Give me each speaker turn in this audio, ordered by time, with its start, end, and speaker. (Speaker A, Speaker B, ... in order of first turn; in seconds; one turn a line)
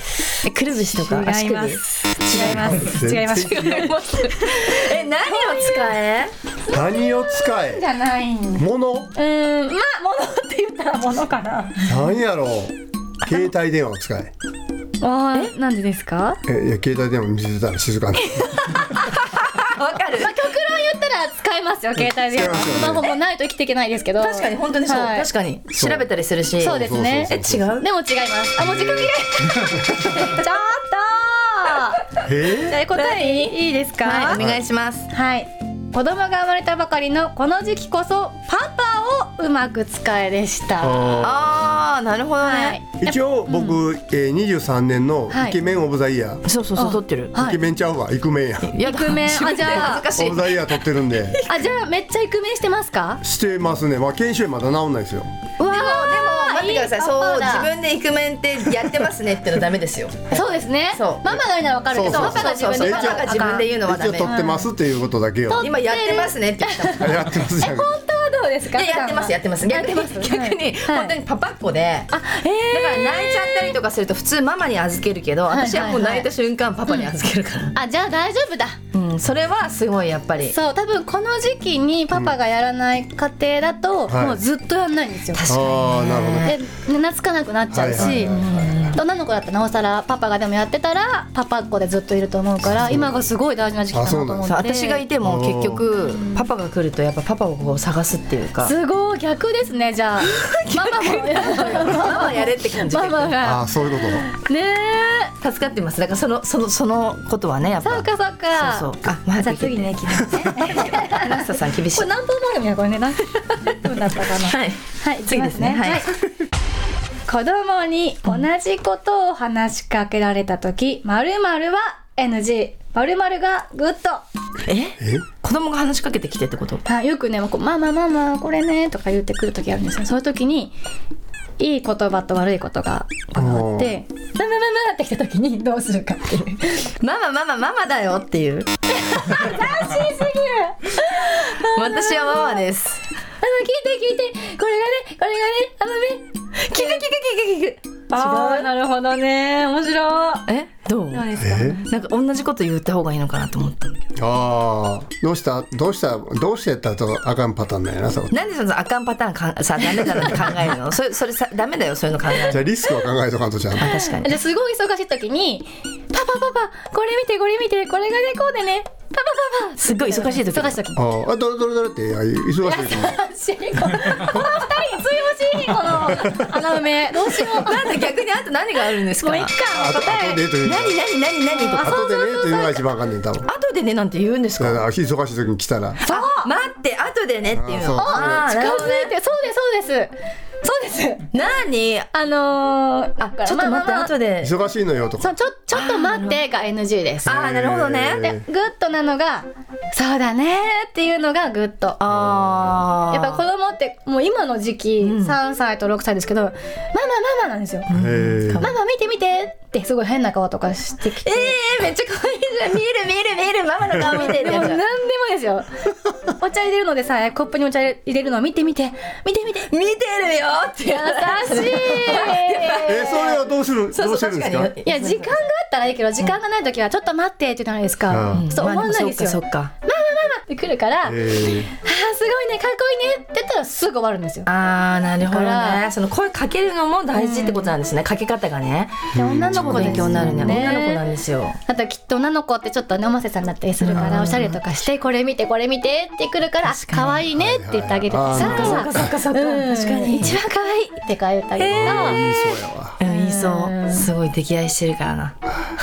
Speaker A: 0.4-6.3
Speaker B: 0.8-6.0
Speaker C: 2.3-3.6
Speaker B: 6.6-11.9
Speaker C: 6.7-7.8
Speaker C: 8.5-9.1
Speaker C: 11.8-14.3
Speaker B: 15.0-16.4
Speaker C: 16.4-18.9
Speaker B: 18.2-19.1
Speaker A: 19.1-20.4
Speaker B: 20.1-25.3
Speaker C: 22.0-23.1
Speaker A: 24.2-27.9
Speaker C: 25.7-26.1
Speaker B: 26.6-34.4
Speaker C: 26.7-27.7
Speaker C: 28.6-30.2
Speaker C: 32.2-32.8
Speaker A: 32.9-35.1
Speaker C: 34.3-34.7
Speaker B: 35.1-41.2
Speaker C: 40.8-41.5
Speaker A: 41.2-42.8
Speaker B: 42.4-43.8
Speaker C: 43.0-46.4
Speaker B: 45.3-45.6
Speaker A: 46.5-47.4
Speaker B: 46.8-47.6
Speaker C: 47.3-48.8
Speaker A: 48.7-50.8
Speaker B: 48.8-50.1
Speaker C: 50.1-51.5
Speaker B: 51.5-53.2
Speaker C: 53.2-55.4
Speaker A: 55.6-61.4
Speaker B: 55.6-57.7
Speaker B: 60.3-64.7
Speaker C: 61.9-65.7
Speaker A: 61.9-64.3
Speaker B: 65.5-71.2
Speaker A: 65.6-67.1
Speaker C: 67.0-67.9
Speaker A: 68.7-72.1
Speaker B: 72.1-73.8
Speaker A: 72.7-77.8
Speaker B: 75.5-76.3
Speaker B: 76.9-77.1
Speaker B: 77.7-78.8
Speaker A: 78.9-80.5
Speaker B: 80.5-95.0
Speaker C: 84.1-84.4
Speaker A: 85.3-86.6
Speaker C: 85.5-86.6
Speaker C: 87.7-89.0
Speaker A: 88.0-89.0
Speaker C: 92.6-93.3
Speaker C: 93.9-94.5
Speaker A: 94.5-98.7
Speaker C: 95.2-95.9
Speaker B: 96.0-96.5
Speaker B: 98.6-105.3
Speaker A: 100.3-103.4
Speaker C: 103.4-104.3
Speaker A: 105.4-112.1
Speaker B: 107.8-116.2
Speaker A: 114.1-116.1
Speaker B: 117.3-124.2
Speaker A: 124.7-126.8
Speaker C: 125.0-125.3
Speaker B: 126.8-130.8
Speaker B: 131.6-136.9
Speaker C: 133.3-134.0
Speaker A: 137.0-138.7
Speaker B: 138.9-142.7
Speaker A: 141.7-143.0
Speaker B: 143.4-147.1
Speaker A: 146.7-148.7
Speaker B: 148.1-150.5
Speaker A: 150.5-154.1
Speaker B: 151.1-151.9
Speaker C: 151.4-151.8
Speaker C: 154.2-158.4
Speaker A: 158.3-162.6
Speaker C: 162.5-164.0
Speaker A: 163.8-164.4
Speaker B: 163.8-171.0
Speaker A: 169.8-170.8
Speaker C: 171.0-173.2
Speaker B: 172.7-178.0
Speaker C: 173.8-174.5
Speaker C: 176.1-176.6
Speaker A: 177.1-182.0
Speaker B: 179.2-180.4
Speaker C: 179.7-181.0
Speaker B: 181.5-182.8
Speaker C: 181.8-183.5
Speaker A: 183.5-184.8
Speaker C: 184.6-186.0
Speaker B: 186.0-186.5
Speaker A: 186.1-189.2
Speaker C: 187.5-188.5
Speaker B: 187.9-191.3
Speaker A: 191.3-192.1
Speaker B: 192.1-194.1
Speaker A: 193.2-194.5
Speaker C: 194.4-195.3
Speaker B: 195.2-197.3
Speaker A: 195.7-196.4
Speaker A: 197.2-198.3
Speaker C: 197.2-198.4
Speaker B: 198.2-202.0
Speaker A: 202.0-203.4
Speaker C: 202.1-202.8
Speaker B: 203.1-207.9
Speaker A: 205.0-205.4
Speaker A: 207.9-208.7
Speaker C: 207.9-208.7
Speaker B: 208.6-211.6
Speaker A: 211.2-214.8
Speaker B: 214.2-219.7
Speaker A: 219.7-223.4
Speaker B: 220.9-223.4
Speaker C: 222.8-224.7
Speaker A: 223.9-225.4
Speaker B: 224.8-234.5
Speaker C: 228.1-228.5
Speaker A: 228.3-229.7
Speaker C: 231.1-231.7
Speaker A: 234.5-241.6
Speaker B: 235.2-235.8
Speaker B: 237.1-237.7
Speaker C: 239.1-240.8
Speaker B: 239.3-241.1
Speaker B: 241.7-252.3
Speaker A: 243.8-244.6
Speaker A: 246.7-247.2
Speaker C: 247.3-249.2
Speaker A: 248.3-250.5
Speaker A: 251.6-252.2
Speaker C: 251.7-253.0
Speaker A: 253.0-255.4
Speaker B: 253.0-254.1